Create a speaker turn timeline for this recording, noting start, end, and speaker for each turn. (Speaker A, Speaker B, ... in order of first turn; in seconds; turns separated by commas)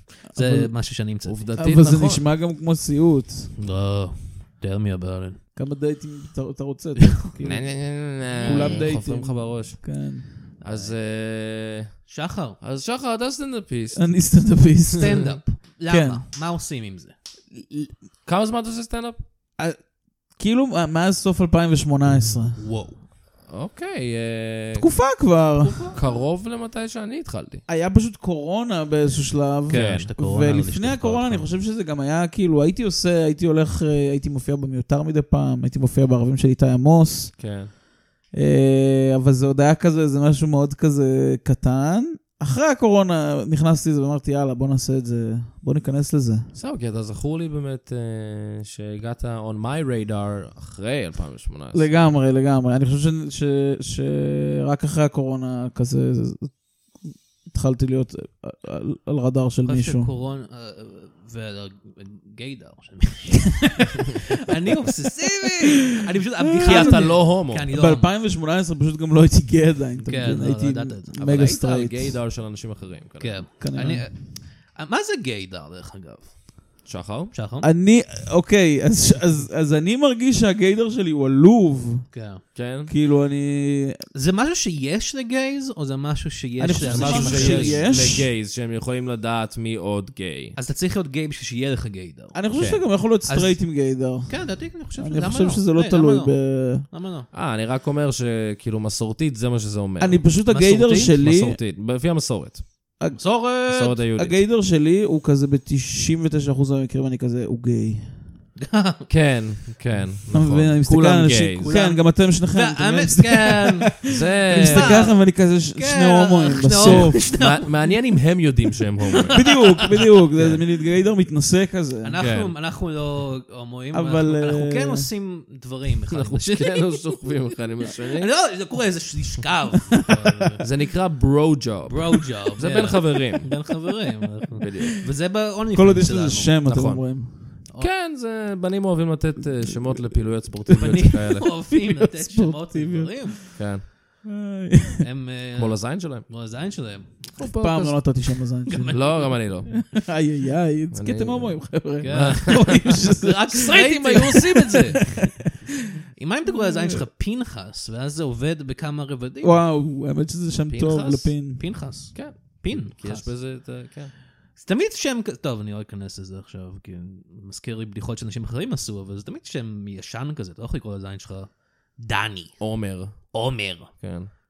Speaker A: 0.3-0.7, Speaker B: 0.3-1.5, Speaker C: 1.2-2.2, Speaker A: 1.6-3.5, Speaker B: 3.6-5.4, Speaker A: 5.5-10.3, Speaker C: 7.4-10.1, Speaker B: 8.4-8.9, Speaker C: 10.6-12.1, Speaker B: 10.6-10.9, Speaker B: 12.1-12.6, Speaker C: 12.6-14.1, Speaker A: 13.9-15.2, Speaker B: 14.9-17.1, Speaker C: 15.0-15.3, Speaker A: 15.9-16.2, Speaker A: 17.6-17.9, Speaker C: 18.2-19.2, Speaker A: 20.4-22.6, Speaker B: 22.5-23.0, Speaker C: 23.5-24.9, Speaker A: 24.8-25.9, Speaker B: 25.6-26.0, Speaker C: 25.9-27.6, Speaker A: 27.7-37.3, Speaker B: 29.6-31.5, Speaker C: 29.7-30.1, Speaker C: 37.4-37.7, Speaker A: 38.3-46.5, Speaker C: 46.5-51.9, Speaker A: 51.7-60.1, Speaker B: 59.6-68.1, Speaker A: 66.5-72.2, Speaker C: 66.6-67.7, Speaker B: 70.0-71.1, Speaker C: 71.2-73.4, Speaker B: 73.2-76.4, Speaker A: 73.6-74.1, Speaker C: 76.8-77.3, Speaker B: 77.3-77.7, Speaker A: 77.6-82.1, Speaker B: 82.1-82.4, Speaker C: 82.5-82.9, Speaker A: 82.9-84.0, Speaker B: 84.1-87.8, Speaker A: 86.6-88.3, Speaker C: 86.8-90.5, Speaker B: 90.5-92.3, Speaker A: 92.3-96.8, Speaker C: 92.5-92.8, Speaker B: 93.2-97.3, Speaker C: 97.3-100.3, Speaker A: 100.0-101.6, Speaker B: 100.5-101.2, Speaker C: 101.1-102.7, Speaker A: 103.0-103.4, Speaker B: 103.1-104.0, Speaker C: 103.7-104.4, Speaker A: 104.1-108.2, Speaker B: 108.6-109.1, Speaker C: 109.1-111.7, Speaker A: 110.3-117.2, Speaker B: 111.6-117.9, Speaker C: 114.1-115.0, Speaker C: 116.8-119.5, Speaker B: 119.1-120.0, Speaker A: 119.3-122.2, Speaker B: 122.0-127.0, Speaker C: 122.2-122.5, Speaker A: 123.9-125.1, Speaker C: 126.1-128.3, Speaker B: 128.1-130.6, Speaker C: 130.6-133.5, Speaker B: 131.9-136.5, Speaker C: 134.6-135.0, Speaker A: 135.7-137.3, Speaker C: 136.7-141.5, Speaker A: 140.7-143.7, Speaker B: 140.8-143.4, Speaker C: 143.6-143.8, Speaker A: 144.2-145.0, Speaker B: 145.0-149.3, Speaker C: 145.6-146.3, Speaker A: 147.4-155.5, Speaker C: 148.9-149.7, Speaker C: 150.9-152.9, Speaker B: 152.0-155.0, Speaker C: 153.5-155.1, Speaker B: 156.2-159.6, Speaker A: 156.5-157.0, Speaker A: 159.4-161.6, Speaker C: 160.7-161.4, Speaker B: 161.6-163.3, Speaker C: 162.1-164.1, Speaker B: 164.6-172.6, Speaker C: 172.6-173.3, Speaker B: 173.3-173.9, Speaker C: 174.0-174.3